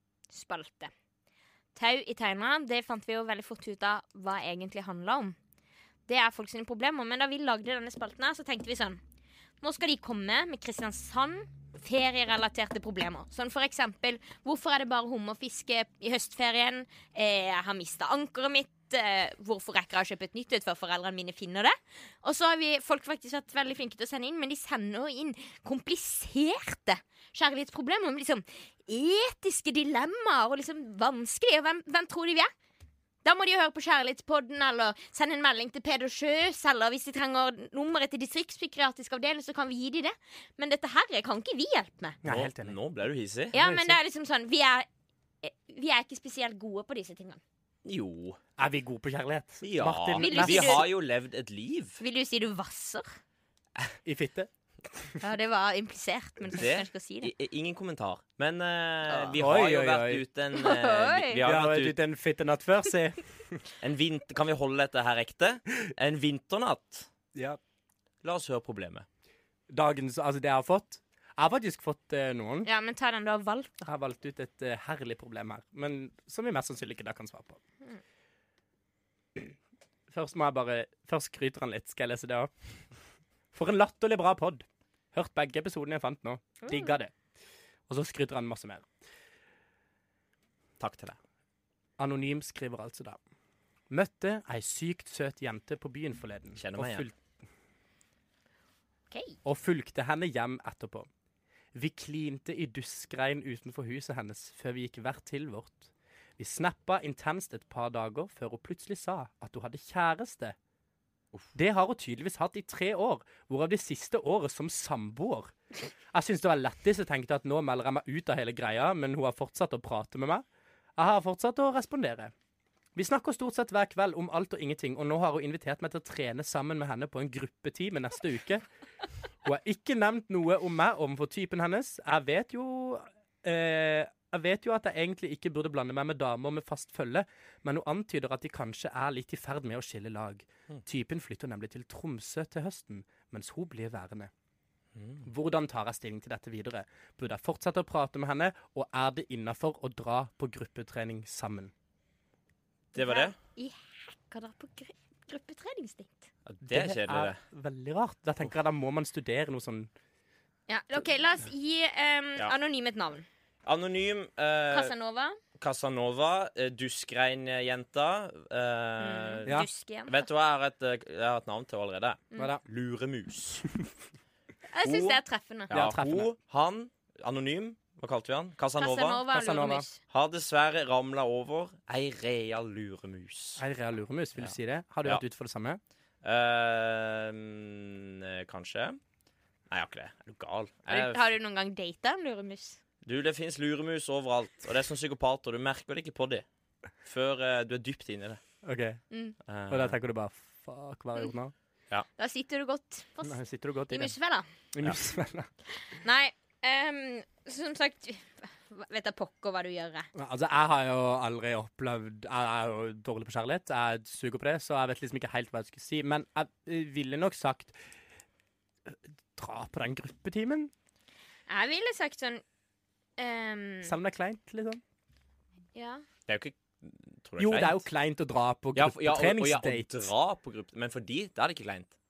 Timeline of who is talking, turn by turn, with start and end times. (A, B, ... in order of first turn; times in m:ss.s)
0:00.3-0:00.9 A
0:01.7-0:05.4 A
0:06.1-0:09.0 A
0:09.6-0:32.5 A
0:33.2-0:42.2 A
0:42.2-0:42.7 B
0:42.2-0:43.5 C
0:43.5-0:44.8 A
0:43.5-0:44.0 B
0:45.4-0:47.4 A
0:47.8-0:48.4 C
0:48.6-0:50.9 B
0:49.6-0:52.0 C
0:50.2-0:50.9 A
0:52.0-0:53.2 A
0:54.0-0:55.1 B
0:55.2-0:57.3 A
0:56.5-1:02.0 C
0:59.1-0:59.4 A
0:59.4-1:00.2 B
1:00.5-1:01.4 A
1:01.4-1:03.6 B
1:03.8-1:07.1 C
1:08.2-1:09.0 C
1:09.7-1:12.7 B
1:12.6-1:13.8 A
1:13.8-1:17.6 B
1:20.1-1:22.5 B
1:23.5-1:27.1 B
1:26.6-1:26.9 A
1:27.9-1:28.9 B
1:30.8-1:31.2 C
1:32.0-1:33.2 B
1:33.9-1:37.1 B
1:36.6-1:37.0 C
1:39.1-1:39.4 A
1:39.4-1:41.1 B
1:41.7-1:50.6 B
1:51.5-1:55.5 B
1:56.1-2:00.4 B
2:01.0-2:02.3 B
2:02.9-2:08.6 B
2:09.4-2:24.3 B
2:24.9-2:25.2 C
2:25.2-2:31.7 B
2:32.9-2:36.3 A
2:33.0-2:33.3 C
2:36.4-2:37.4 C
2:36.7-2:39.9 B
2:40.7-2:43.2 A
2:43.6-2:44.9 C
2:44.7-2:45.4 A
2:45.6-2:49.5 C
2:49.0-2:50.2 A
2:50.1-2:53.6 C
2:52.4-2:52.6 B
2:54.7-2:55.7 A
2:54.8-2:59.2 C
2:55.7-2:56.3 B
2:58.8-3:00.0 A
2:59.3-2:59.8 B
3:00.1-3:03.6 C
3:03.6-3:05.8 B
3:06.2-3:09.0 C
3:09.7-3:11.3 C
3:10.9-3:12.8 A
3:13.0-3:16.4 C
3:17.0-3:18.4 C
3:18.6-3:19.0 B
3:19.1-3:19.4 A
3:19.5-3:20.0 C
3:19.7-3:21.5 B
3:22.2-3:23.4 A
3:23.2-3:24.1 B
3:23.9-3:24.5 A
3:24.7-3:25.5 B
3:25.9-3:30.1 A
3:30.1-3:37.8 B
3:38.9-3:40.7 B
3:41.5-3:42.4 A
3:43.2-3:44.0 A
3:43.8-3:44.8 B
3:45.7-3:46.0 A
3:46.3-3:47.8 C
3:47.4-3:50.1 B
3:48.8-3:51.9 C